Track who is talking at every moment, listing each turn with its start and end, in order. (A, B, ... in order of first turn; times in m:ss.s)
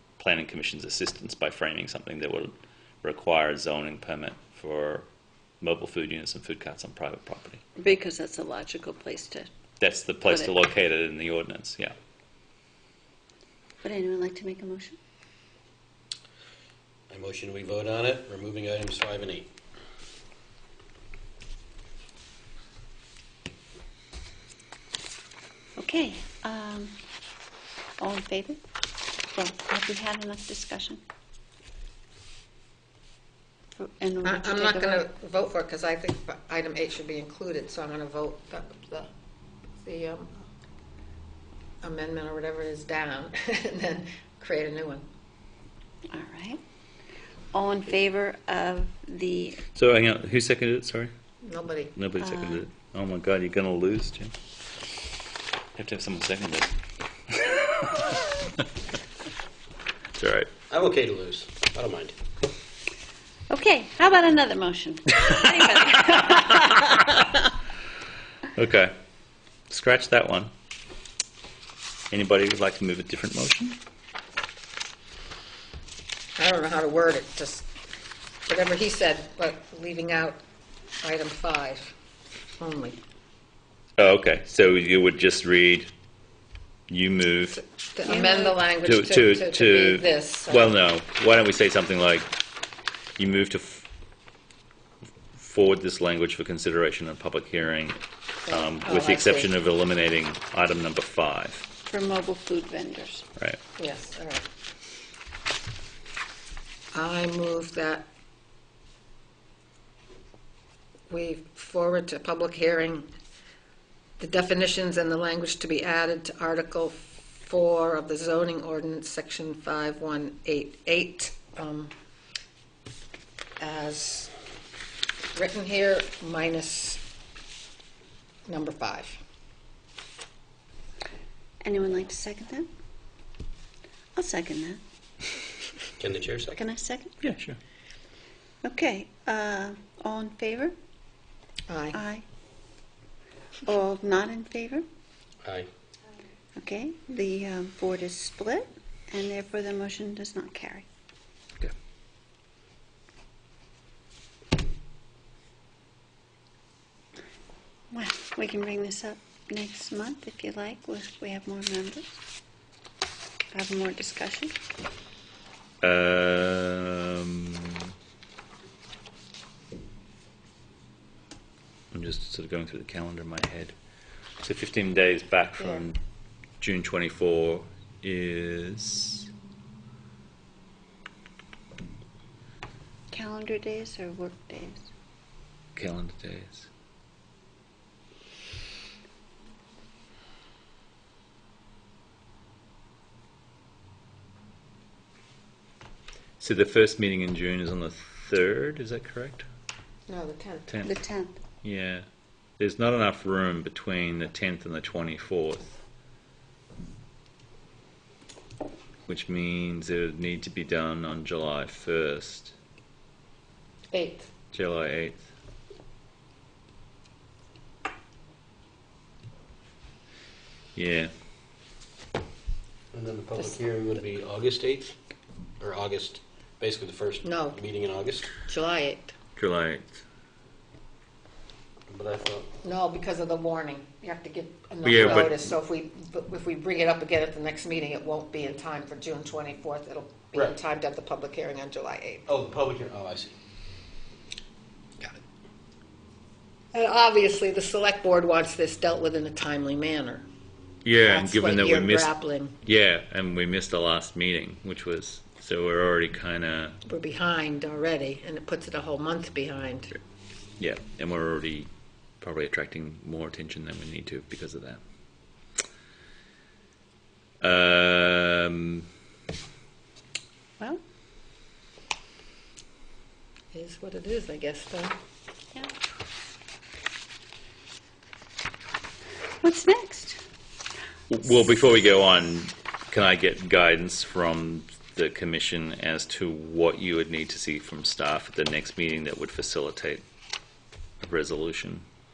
0:00.2-0:05.1 A
0:05.6-0:07.6 A
0:07.8-0:09.5 B
0:09.8-0:11.9 A
0:10.3-0:10.5 B
0:13.8-0:15.0 B
0:17.1-0:19.5 C
0:25.8-0:27.0 B
0:28.0-0:28.6 B
0:29.2-0:31.0 B
0:33.8-0:35.1 B
0:34.2-0:39.1 D
0:39.8-0:40.3 D
0:41.8-0:45.1 D
0:46.1-0:46.6 B
0:47.5-0:49.6 B
0:49.7-0:51.1 A
0:51.4-0:51.9 D
0:52.0-0:54.3 A
0:52.2-0:52.6 B
0:55.8-0:56.7 A
0:57.3-0:58.2 A
1:00.2-1:00.5 A
1:00.7-1:02.2 C
1:03.5-1:07.1 B
1:08.5-1:08.9 A
1:09.7-1:10.5 A
1:12.1-1:13.8 A
1:16.4-1:17.7 D
1:18.5-1:20.4 D
1:21.0-1:21.9 D
1:22.6-1:23.0 D
1:24.0-1:25.9 A
1:26.9-1:27.6 A
1:27.6-1:30.7 D
1:28.8-1:32.3 A
1:33.2-1:33.9 A
1:35.3-1:41.7 A
1:38.5-1:39.5 D
1:41.9-1:43.3 B
1:43.8-1:44.4 D
1:46.9-1:48.1 D
1:51.1-1:53.1 D
1:54.2-2:01.9 D
2:03.6-2:04.3 D
2:05.4-2:07.0 D
2:08.5-2:09.2 D
2:11.6-2:12.7 B
2:14.2-2:14.8 B
2:16.0-2:16.6 C
2:16.5-2:17.2 B
2:17.2-2:17.6 A
2:18.6-2:20.8 B
2:21.7-2:22.0 D
2:21.9-2:22.2 B
2:23.6-2:24.9 B
2:25.4-2:25.7 C
2:26.6-2:30.9 B
2:37.9-2:42.2 B
2:43.5-2:44.6 B
2:45.8-2:47.8 A
2:51.9-2:53.8 A
2:54.4-2:56.0 A
2:56.6-2:59.3 A
3:03.1-3:04.9 B
3:05.8-3:06.7 A
3:16.4-3:19.5 A
3:20.1-3:20.7 D
3:20.8-3:21.4 B
3:21.6-3:22.1 A
3:22.6-3:25.8 A
3:29.1-3:32.5 A
3:33.9-3:34.3 D
3:34.5-3:35.2 A
3:40.8-3:41.1 A
3:42.9-3:45.0 C
3:45.6-3:48.3 C
3:47.2-3:47.6 D
3:48.4-3:49.2 D
3:49.4-3:50.0 A
3:51.9-3:52.5 C
3:52.6-4:02.3 D
3:54.8-3:55.4 A
4:02.3-4:03.4 C
4:06.7-4:10.3 D
4:10.8-4:16.8 A
4:11.0-4:12.6 D
4:16.8-4:19.9 D
4:20.6-4:21.7 A
4:22.2-4:24.8 A
4:27.4-4:28.9 A
4:33.5-4:35.0 D
4:39.4-4:40.2 B
4:41.1-4:50.0 A
4:51.0-4:51.8 A